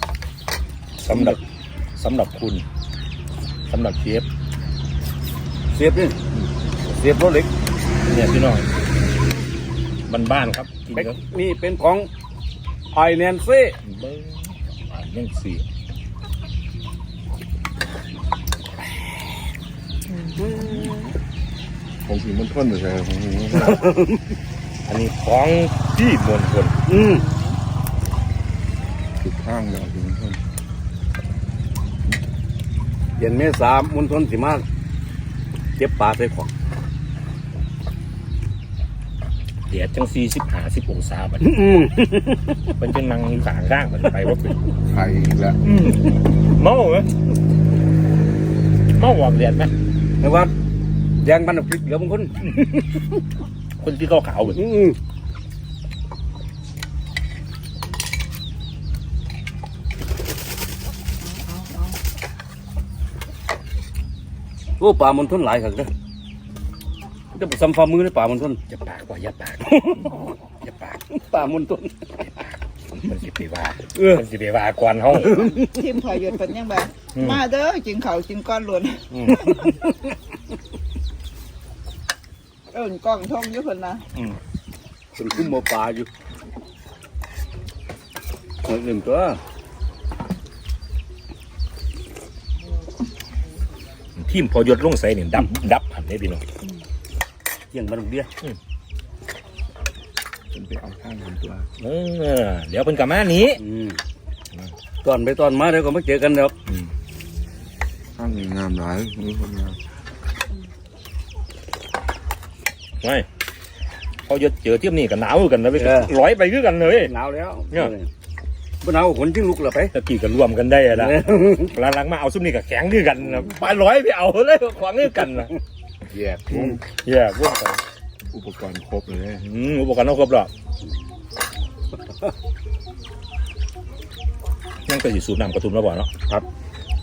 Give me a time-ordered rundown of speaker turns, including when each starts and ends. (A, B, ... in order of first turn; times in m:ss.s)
0:01.0-0:01.4 A
0:02.0-0:02.6 A
0:03.7-0:04.2 A
0:05.7-0:06.2 B
0:06.8-0:07.5 B
0:08.1-0:08.7 A
0:10.1-0:11.2 A
0:10.9-0:12.1 B
0:12.9-0:13.8 B
0:13.8-0:15.6 A
0:20.4-0:21.1 B
0:22.0-0:23.8 C
0:23.6-0:24.2 B
0:24.9-0:26.8 A
0:26.8-0:27.3 B
0:27.2-0:27.6 D
0:29.2-0:30.4 C
0:33.2-0:34.6 B
0:35.8-0:36.5 B
0:39.7-0:41.5 A
0:41.4-0:42.5 B
0:42.8-0:44.6 A
0:44.8-0:45.6 C
0:45.6-0:47.1 A
0:49.0-0:49.7 A
0:50.2-0:50.5 B
0:51.2-0:53.0 B
0:53.8-0:54.6 A
0:54.5-0:55.0 B
1:01.2-1:02.0 D
1:04.8-1:05.9 B
1:07.3-1:08.6 B
1:08.7-1:11.0 A
1:09.6-1:10.3 B
1:11.1-1:12.3 B
1:12.9-1:15.5 A
1:13.9-1:14.2 B
1:15.1-1:15.8 B
1:15.3-1:19.8 D
1:17.1-1:17.4 A
1:19.1-1:19.5 A
1:19.6-1:19.9 B
1:22.7-1:24.0 D
1:25.2-1:26.1 B
1:28.6-1:29.4 B
1:34.2-1:36.4 A
1:37.7-1:38.3 B
1:40.5-1:41.7 C
1:41.8-1:43.6 A
1:43.6-1:44.0 B
1:45.0-1:46.5 B
1:48.2-1:49.8 C
1:54.3-1:57.1 A
1:55.7-1:56.1 B
1:57.0-1:58.1 B
1:58.8-1:59.9 B
1:59.9-2:05.5 A
2:00.9-2:01.8 B
2:06.1-2:06.8 B
2:06.5-2:07.8 A
2:08.3-2:09.4 C
2:09.4-2:10.5 A
2:14.9-2:16.1 A